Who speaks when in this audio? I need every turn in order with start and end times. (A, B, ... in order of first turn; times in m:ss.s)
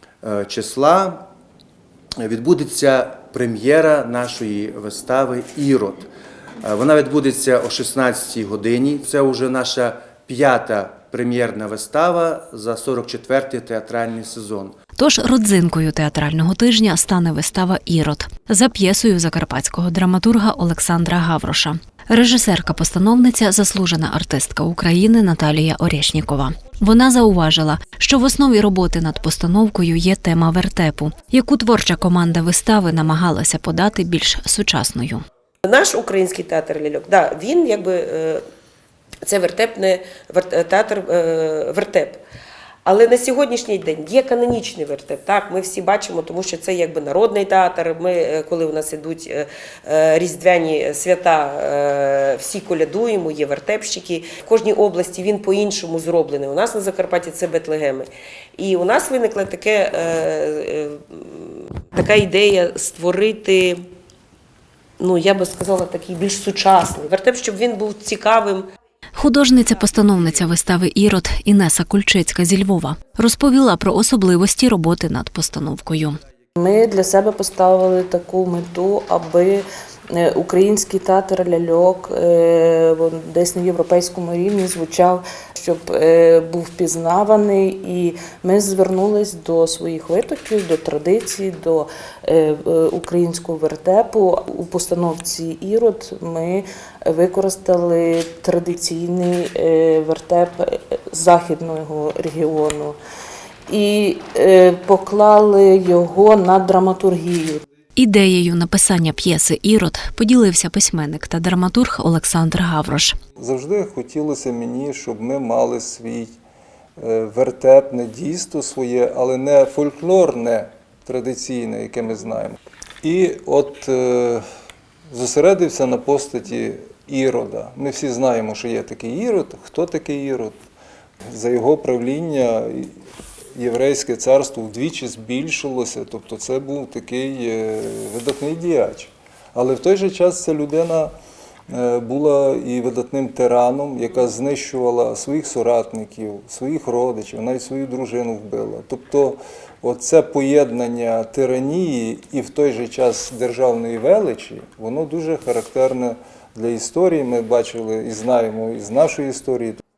0:00.2-0:01.3 A
0:02.2-0:06.1 A
0:06.6-0:14.8 A
0:15.0-0:35.2 B
0:35.6-0:38.4 C
0:39.2-0:42.2 C
0:42.8-1:03.8 C
1:05.0-1:08.7 C
1:09.2-1:16.2 B
1:16.6-1:43.0 D
1:43.7-1:47.6 D
1:48.0-1:53.2 B
1:53.4-1:56.4 E
1:57.0-2:04.4 E
2:05.1-2:10.6 E
2:11.3-2:13.0 E
2:13.6-2:21.1 E
2:21.7-2:39.8 E